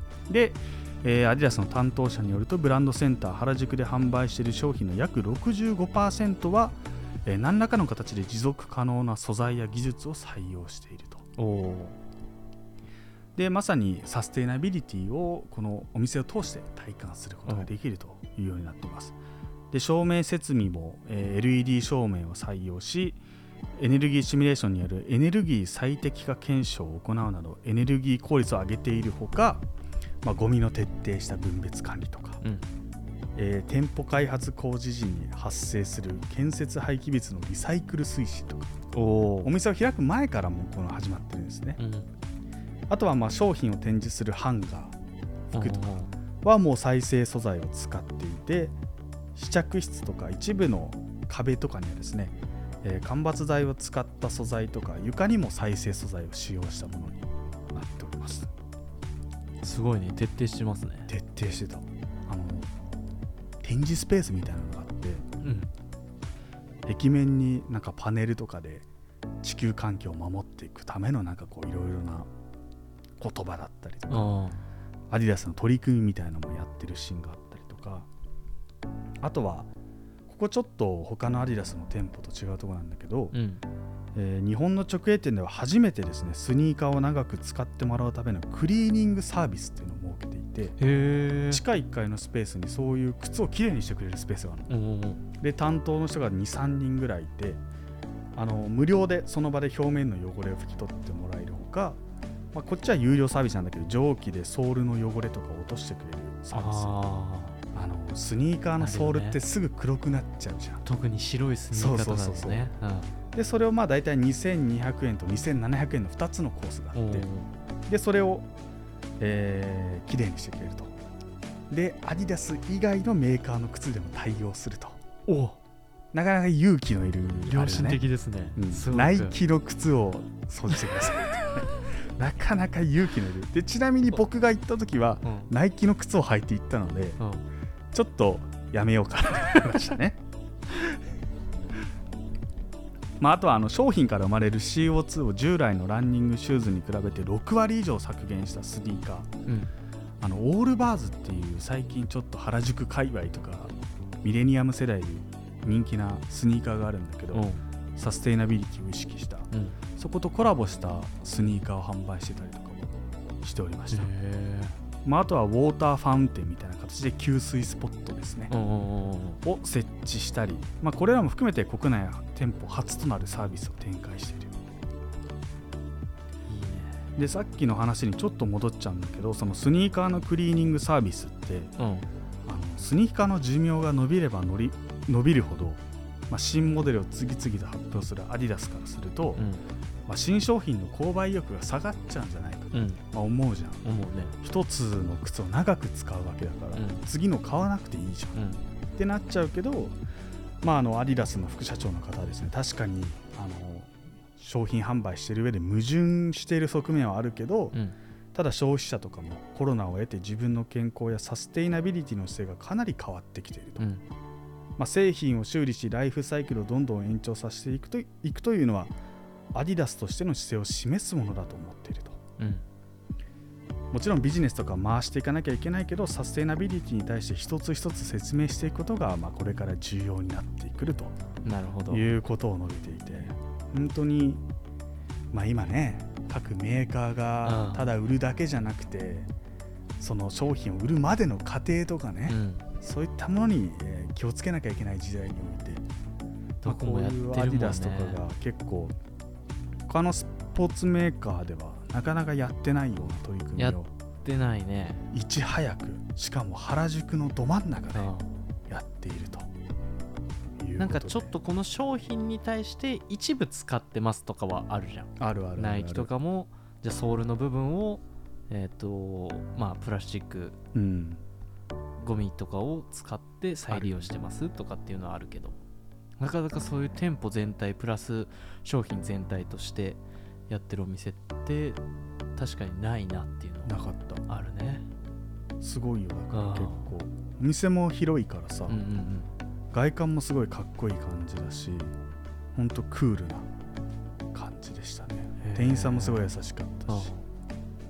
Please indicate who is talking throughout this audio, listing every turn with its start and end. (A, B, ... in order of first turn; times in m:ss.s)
0:00.3-0:11.2 A
0:11.4-0:12.0 B
0:13.4-0:19.2 A
0:19.7-0:23.2 A
0:23.7-0:29.6 A
0:30.2-0:32.4 A
0:32.4-0:32.7 B
0:33.4-0:38.7 A
0:38.9-0:39.5 B
0:39.4-0:41.8 A
0:41.8-0:42.1 B
0:42.9-0:45.0 A
0:45.5-0:46.1 B
0:45.5-0:48.8 A
0:49.3-0:58.5 A
0:59.6-1:01.1 B
1:01.1-1:02.7 A
1:03.6-1:05.2 A
1:05.4-1:05.7 B
1:06.8-1:08.8 A
1:09.4-1:12.3 A
1:13.2-1:14.3 A
1:14.1-1:14.6 B
1:15.1-1:18.1 A
1:19.2-1:19.7 A
1:20.3-1:23.3 A
1:23.3-1:23.6 B
1:24.1-1:30.8 A
1:30.8-1:31.6 B
1:31.5-1:34.7 A
1:34.7-1:35.2 B
1:35.4-1:37.6 A
1:38.3-1:42.0 A
1:42.5-1:47.0 A
1:46.5-1:47.6 B
1:47.7-1:50.8 A
1:48.8-1:49.4 B
1:50.8-1:53.1 B
1:51.7-1:52.6 A
1:53.3-1:57.3 A
1:56.9-1:57.5 B
1:57.9-1:58.5 A
1:59.2-2:00.9 A
2:01.7-2:05.0 A
2:05.3-2:05.6 B
2:06.1-2:08.0 A
2:07.5-2:09.4 B
2:08.6-2:17.2 A
2:15.2-2:15.5 B
2:17.2-2:17.4 B
2:17.9-2:20.2 A
2:23.2-2:29.3 A
2:29.4-2:29.7 B
2:30.2-2:44.1 A
2:37.3-2:37.6 B
2:39.5-2:39.8 B
2:43.9-2:44.8 B
2:45.0-2:48.5 A
2:48.5-2:49.4 B
2:49.4-2:54.6 A
2:56.5-2:57.0 B
2:57.2-3:01.7 A
3:01.8-3:02.1 B
3:02.4-3:09.4 A
3:09.4-3:09.6 B
3:10.0-3:13.8 A
3:12.7-3:13.0 B
3:13.8-3:14.3 B
3:14.4-3:18.4 A
3:16.7-3:17.0 B
3:18.3-3:18.6 B
3:19.0-3:20.0 A
3:20.6-3:27.8 A
3:28.3-3:33.9 A
3:33.8-3:34.0 B
3:34.8-3:38.9 A
3:39.5-3:42.2 A
3:42.4-3:42.6 B
3:43.9-3:51.2 A
3:51.4-3:52.0 B
3:51.9-3:54.4 A
3:55.3-3:59.3 A
3:57.4-3:57.9 B
4:00.0-4:05.8 A
4:02.3-4:02.6 B
4:06.6-4:08.2 B
4:06.6-4:09.0 A
4:09.9-4:13.9 A
4:13.6-4:15.0 B
4:15.1-4:18.1 A
4:17.9-4:18.3 B
4:18.7-4:19.5 A
4:20.6-4:21.3 A
4:20.8-4:30.6 B
4:25.2-4:26.1 A
4:30.7-4:31.2 A
4:32.0-4:35.6 B
4:33.7-4:34.1 A
4:36.2-4:41.8 B
4:42.4-4:43.8 B
4:43.6-4:44.2 A
4:44.3-4:44.9 B
4:45.6-4:48.8 A
4:46.3-4:46.9 B
4:48.7-4:49.3 B
4:49.7-4:51.9 A
4:52.5-4:53.5 A
4:54.3-4:57.1 A
4:55.4-4:56.3 B
4:56.9-4:57.2 B